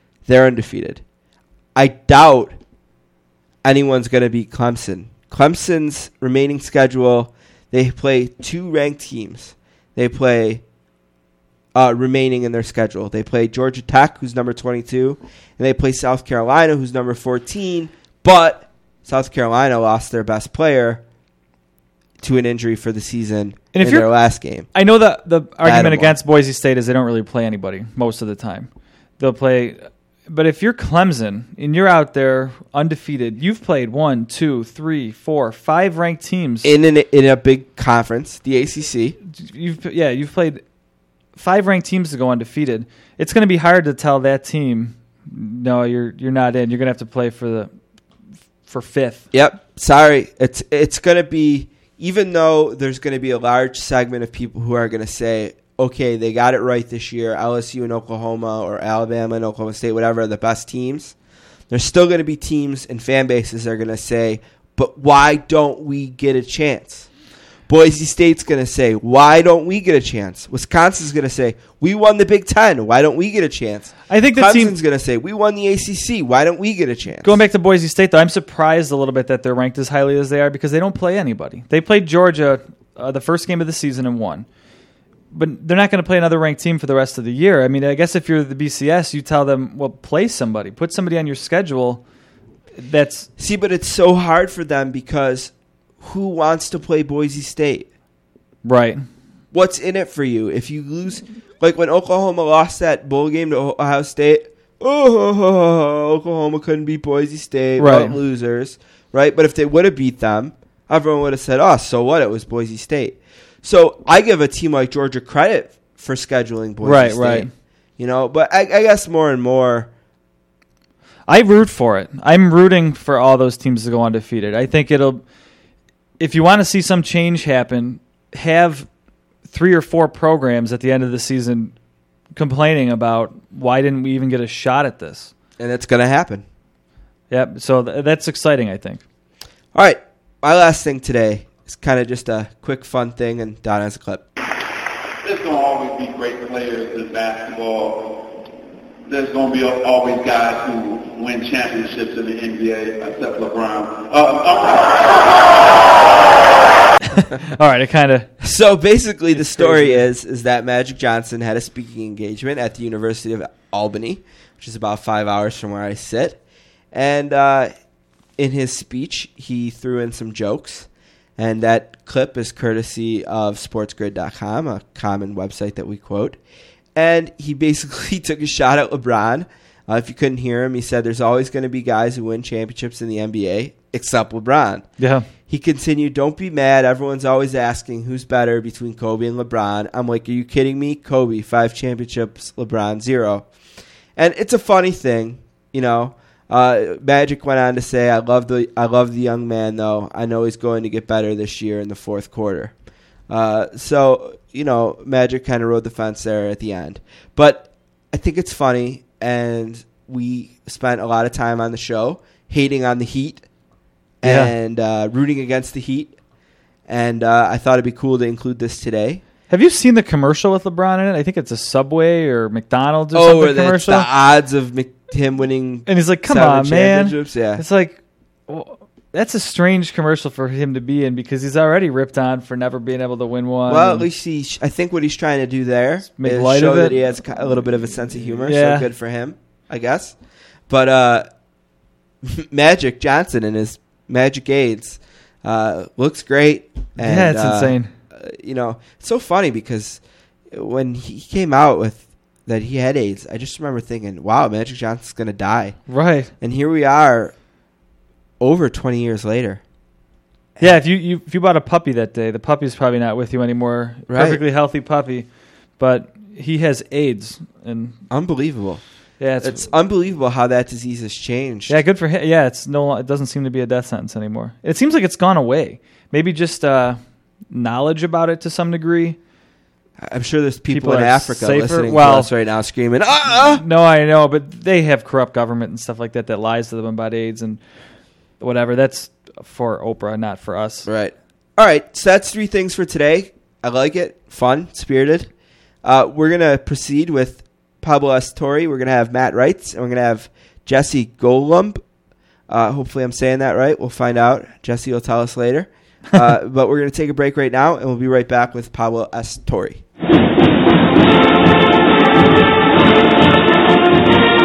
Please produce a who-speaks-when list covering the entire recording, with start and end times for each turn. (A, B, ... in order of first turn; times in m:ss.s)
0:00.2-0:01.0 A
0:01.7-0:02.6 A
0:03.6-0:10.6 A
0:11.7-0:21.0 A
0:22.2-0:24.7 A
0:23.7-0:24.1 B
0:24.7-0:36.7 B
0:25.6-0:26.2 A
0:36.6-0:39.2 A
0:39.3-0:40.6 B
0:41.4-0:47.7 B
0:48.7-0:49.2 B
0:49.3-1:01.1 A
1:01.7-1:07.1 A
1:07.7-1:17.4 A
1:14.1-1:14.7 B
1:17.2-1:24.4 B
1:25.3-1:32.0 B
1:32.8-1:33.3 B
1:33.4-1:37.9 A
1:38.6-1:39.0 B
1:39.5-1:59.9 A
1:47.8-1:48.2 B
1:56.8-1:57.5 B
2:01.3-2:05.2 B
2:06.2-2:08.9 B
2:09.5-2:11.8 B
2:12.3-2:15.3 B
2:15.6-2:16.4 A
2:17.3-2:19.0 B
2:19.7-2:24.2 A
2:25.2-2:28.5 C
2:29.1-2:36.4 C
2:37.1-2:38.3 B
2:38.4-2:46.4 A
2:39.4-2:40.0 B
2:46.9-2:47.7 A
2:48.4-2:56.4 A
2:56.9-3:04.9 A
3:05.0-3:05.3 B
3:05.5-3:13.4 A
3:14.2-3:22.7 A
3:23.3-3:33.4 A
3:34.2-3:36.1 A
3:34.2-3:34.5 B
3:36.9-3:39.2 A
3:39.5-3:44.1 B
3:43.1-3:47.6 A
3:45.8-3:54.1 B
3:53.7-4:00.2 A
3:56.2-3:56.9 B
3:58.4-3:58.9 B
4:00.7-4:01.3 A
4:02.2-4:17.3 A
4:07.0-4:07.9 B
4:15.9-4:16.3 B
4:18.4-4:19.6 A
4:20.6-4:28.0 B
4:24.1-4:24.4 A
4:28.1-4:28.8 A
4:29.2-4:29.7 B
4:29.4-4:31.7 A
4:31.7-4:39.2 B
4:40.0-4:43.6 A
4:40.7-4:42.3 B
4:43.3-4:47.6 B
4:48.4-4:50.9 B
4:50.8-4:55.3 A
4:55.8-5:01.8 A
5:02.5-5:09.8 A